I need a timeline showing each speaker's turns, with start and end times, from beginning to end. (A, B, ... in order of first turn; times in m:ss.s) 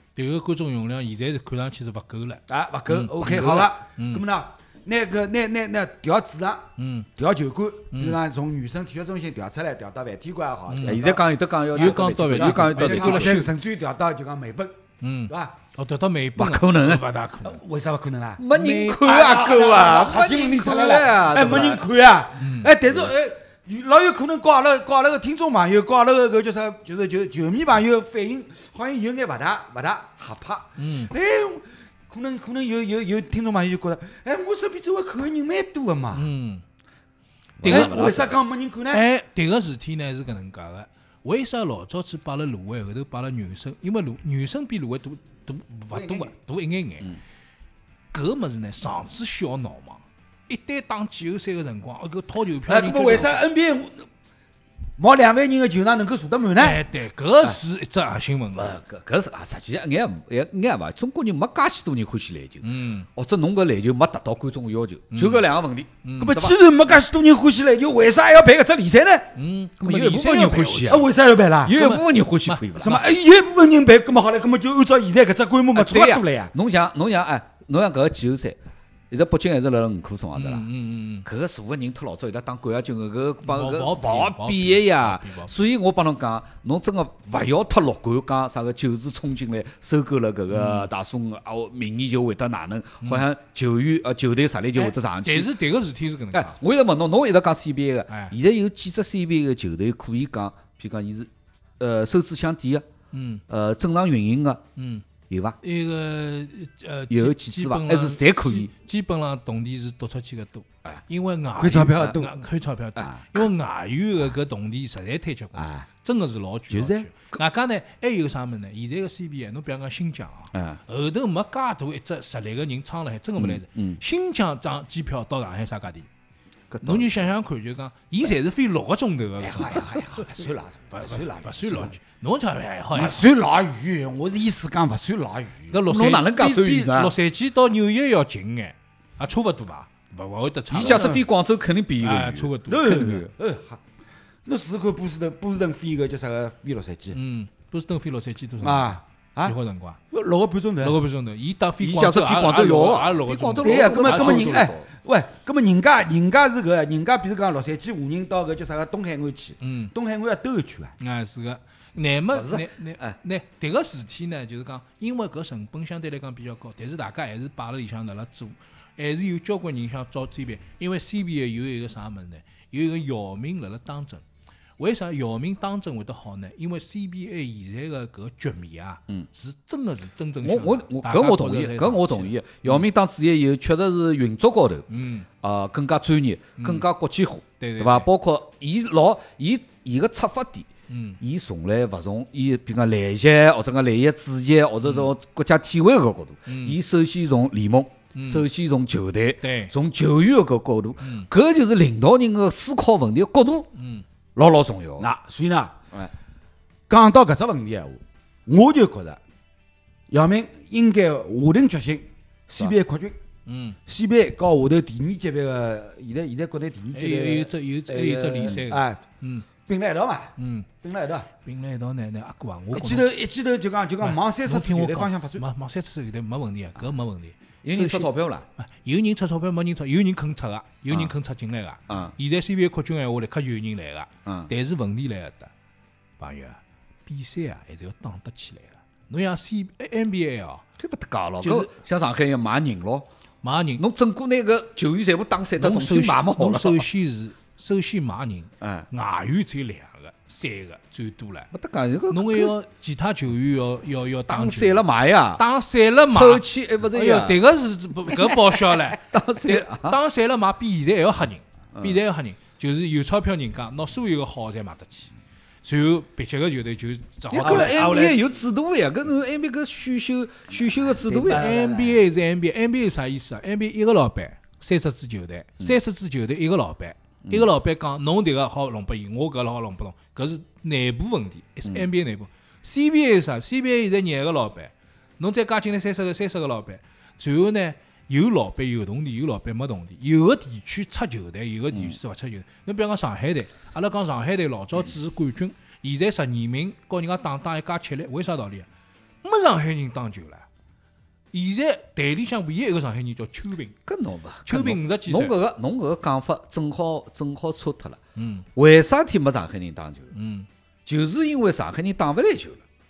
0:00.2-0:04.2 A
0:02.5-0:14.8 B
0:03.2-0:03.7 C
0:06.8-0:07.1 A
0:07.9-0:08.2 A
0:10.7-0:11.1 A
0:10.8-0:13.5 C
0:11.7-0:13.5 A
0:15.0-0:17.6 A
0:15.3-0:15.5 B
0:16.4-0:17.1 C
0:17.4-0:36.3 B
0:18.4-0:21.8 C
0:18.5-0:18.8 A
0:22.4-0:22.8 A
0:30.8-0:31.1 A
0:36.1-0:36.6 A
0:37.6-0:38.3 C
0:37.6-0:38.2 A
0:37.6-0:39.1 B
0:38.9-0:47.2 A
0:45.9-0:46.3 B
0:48.1-0:53.4 A
0:52.7-0:54.1 B
0:55.0-0:56.8 B
0:56.6-0:58.8 A
0:58.6-1:06.6 C
1:02.6-1:03.1 A
1:05.1-1:05.5 A
1:06.0-1:06.5 A
1:06.2-1:09.3 B
1:09.4-1:11.1 A
1:09.8-1:11.1 C
1:10.9-1:11.8 B
1:11.6-1:13.0 C
1:11.7-1:13.0 A
1:12.8-1:16.5 B
1:15.7-1:18.6 C
1:19.1-1:20.6 C
1:20.4-1:21.3 A
1:21.2-1:35.5 C
1:23.4-1:25.5 A
1:30.5-1:30.9 A
1:34.8-1:36.6 A
1:36.3-1:42.8 C
1:38.1-1:38.4 A
1:43.1-1:43.4 A
1:43.5-1:44.6 C
1:44.8-1:45.0 A
1:45.3-1:45.6 C
1:45.6-2:06.1 A
1:47.1-1:48.7 C
1:51.6-1:52.4 B
1:55.6-1:55.9 B
1:56.7-1:57.1 B
2:00.5-2:00.8 C
2:03.4-2:04.0 C
2:06.7-2:07.3 C
2:06.8-2:13.3 A
2:09.4-2:11.9 B
2:12.9-2:15.8 B
2:15.7-2:21.2 A
2:15.9-2:17.2 C
2:20.7-2:23.3 C
2:20.8-2:21.2 B
2:22.0-2:23.2 A
2:22.6-2:23.8 B
2:24.5-2:27.2 B
2:27.1-2:30.0 A
2:28.6-2:29.6 B
2:30.1-2:31.0 B
2:30.8-2:34.6 A
2:31.8-2:34.9 C
2:33.6-2:40.9 B
2:39.6-2:39.9 A
2:41.0-2:54.2 A
2:42.3-2:43.2 C
2:54.8-3:02.8 A
3:00.4-3:04.9 C
3:04.9-3:05.3 A
3:05.4-3:10.7 C
3:06.6-3:06.9 A
3:07.6-3:08.1 A
3:10.9-3:11.2 A
3:11.2-3:23.7 C
3:14.8-3:15.1 A
3:16.5-3:16.8 A
3:18.1-3:18.4 A
3:19.4-3:19.7 A
3:21.0-3:21.3 A
3:23.8-3:24.0 A
3:24.4-3:25.1 C
3:25.0-3:25.7 B
3:26.9-3:29.2 B
3:30.1-3:33.2 B
3:33.5-3:33.8 A
3:33.9-3:39.0 B
3:36.9-3:39.5 A
3:39.7-3:41.3 B
3:40.4-3:40.7 A
3:41.4-3:43.1 A
3:42.7-3:45.4 B
3:44.0-3:55.5 A
3:47.6-3:48.5 C
3:51.9-3:52.1 C
3:54.3-3:54.5 C
3:56.2-4:00.6 A
4:00.8-4:03.1 C
4:01.4-4:01.7 A
4:03.4-4:03.8 A
4:03.8-4:06.9 C
4:05.6-4:11.5 A
4:08.6-4:08.9 C
4:11.5-4:12.6 C
4:12.1-4:14.8 A
4:14.3-4:15.4 C
4:15.4-4:25.1 A
4:16.1-4:17.4 C
4:18.2-4:20.0 C
4:25.6-4:28.3 A
4:27.3-4:31.6 C
4:27.4-4:28.0 B
4:30.9-4:32.0 B
4:31.3-4:58.7 A
4:37.2-4:37.5 C
4:51.7-4:52.0 C
4:59.2-5:00.5 A
5:01.3-5:03.8 A
5:03.9-5:08.0 C
5:04.5-5:05.4 A
5:08.2-5:08.5 A
5:08.6-5:10.1 C
5:10.1-5:10.5 A
5:10.9-5:12.6 C